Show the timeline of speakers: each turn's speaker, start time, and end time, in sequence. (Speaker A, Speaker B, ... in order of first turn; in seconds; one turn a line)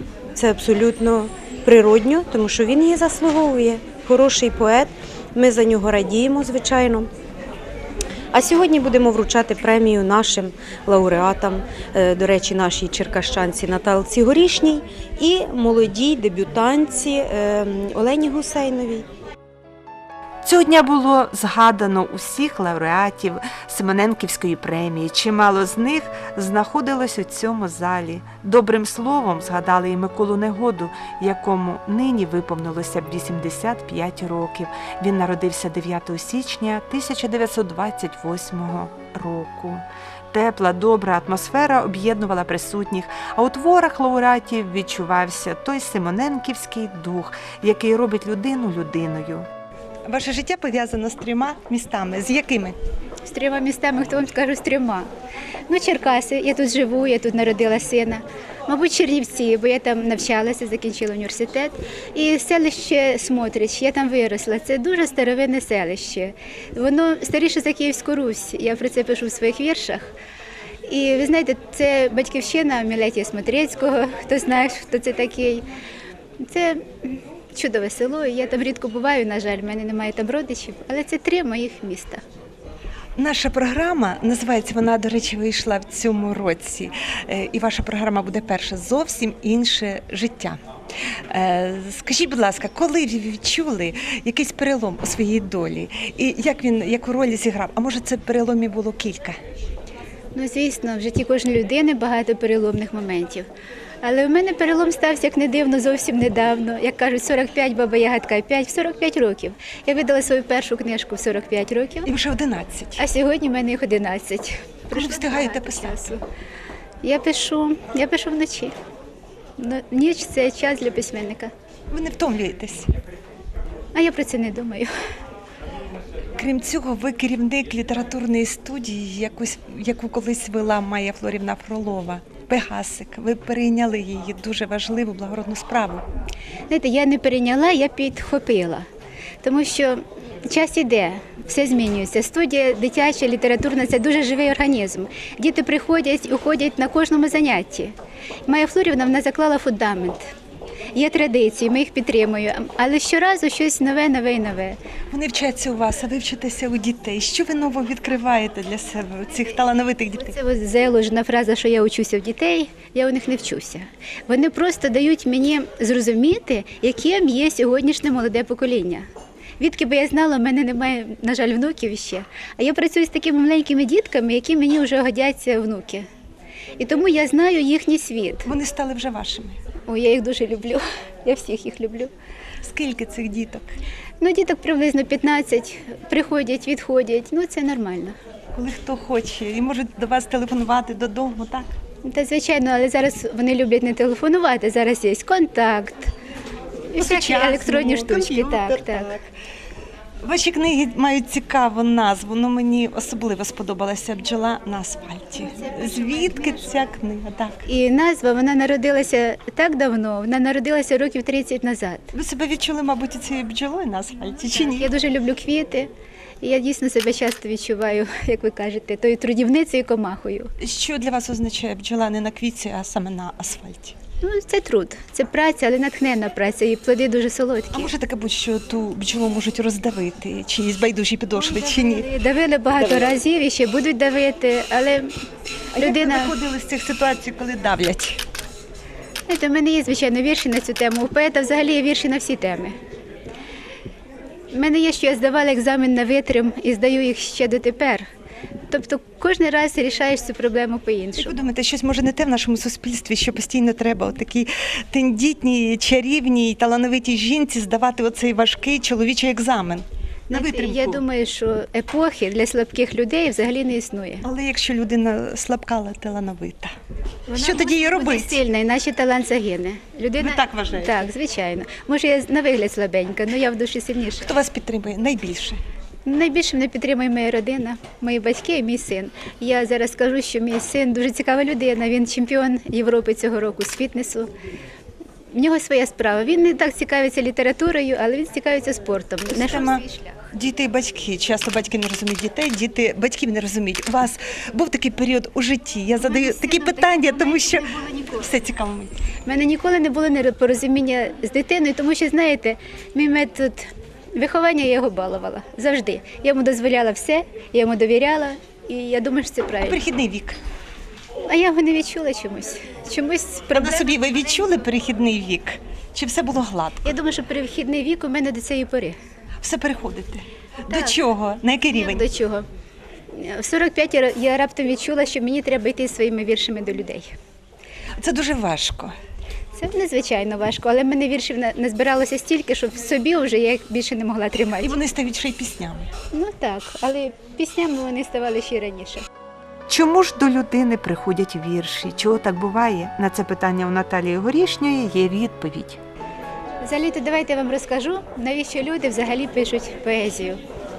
Speaker A: 0.3-7.1
Speaker A: 8.3-19.1
Speaker B: 20.4-49.5
Speaker C: 50.1-52.8
Speaker D: 53.2-55.1
Speaker D: 55.7-70.2
Speaker D: 70.9-75.7
Speaker D: 76.4-82.2
Speaker C: 83.2-90.6
Speaker C: 91.3-99.4
Speaker D: 100.3-103.5
Speaker D: 104.0-112.1
Speaker C: 112.0-113.0
Speaker D: 113.0-116.2
Speaker C: 114.9-116.1
Speaker D: 117.0-118.7
Speaker D: 119.6-121.5
Speaker C: 121.9-122.9
Speaker D: 124.0-124.9
Speaker C: 126.4-136.0
Speaker D: 136.7-138.9
Speaker D: 139.4-147.9
Speaker D: 148.5-150.2
Speaker D: 150.9-154.8
Speaker C: 155.1-160.4
Speaker D: 160.2-169.1
Speaker D: 169.6-176.1
Speaker D: 176.8-178.5
Speaker C: 178.4-179.6
Speaker D: 179.9-182.1
Speaker C: 182.6-183.7
Speaker D: 184.2-188.2
Speaker C: 188.5-191.7
Speaker D: 192.0-196.1
Speaker D: 196.9-199.1
Speaker C: 197.0-199.2
Speaker C: 200.2-207.7
Speaker D: 205.6-206.5
Speaker D: 207.7-212.1
Speaker C: 212.1-214.9
Speaker D: 214.6-215.9
Speaker D: 216.4-220.5
Speaker C: 220.6-224.0
Speaker D: 224.2-227.9
Speaker C: 227.7-232.1
Speaker D: 231.4-235.1
Speaker D: 235.8-236.3
Speaker C: 235.8-238.2
Speaker D: 239.3-242.8
Speaker D: 244.5-248.1
Speaker D: 248.7-251.4
Speaker C: 251.2-261.0
Speaker D: 260.3-264.2
Speaker C: 264.2-266.7
Speaker D: 267.3-274.3
Speaker C: 267.4-268.4
Speaker C: 270.2-271.1
Speaker C: 274.2-275.6
Speaker D: 276.1-284.3
Speaker D: 285.3-290.3
Speaker C: 289.3-299.0
Speaker D: 296.0-298.3
Speaker D: 299.3-309.8
Speaker C: 309.6-310.4
Speaker D: 311.3-314.0
Speaker C: 313.5-316.9
Speaker D: 316.9-319.0
Speaker C: 319.4-322.1
Speaker D: 320.7-321.0
Speaker D: 321.7-322.5
Speaker D: 323.1-327.2
Speaker C: 328.0-328.9
Speaker D: 329.6-334.8
Speaker C: 334.6-335.9
Speaker D: 336.1-339.1
Speaker B: 339.7-345.8
Speaker D: 346.6-350.4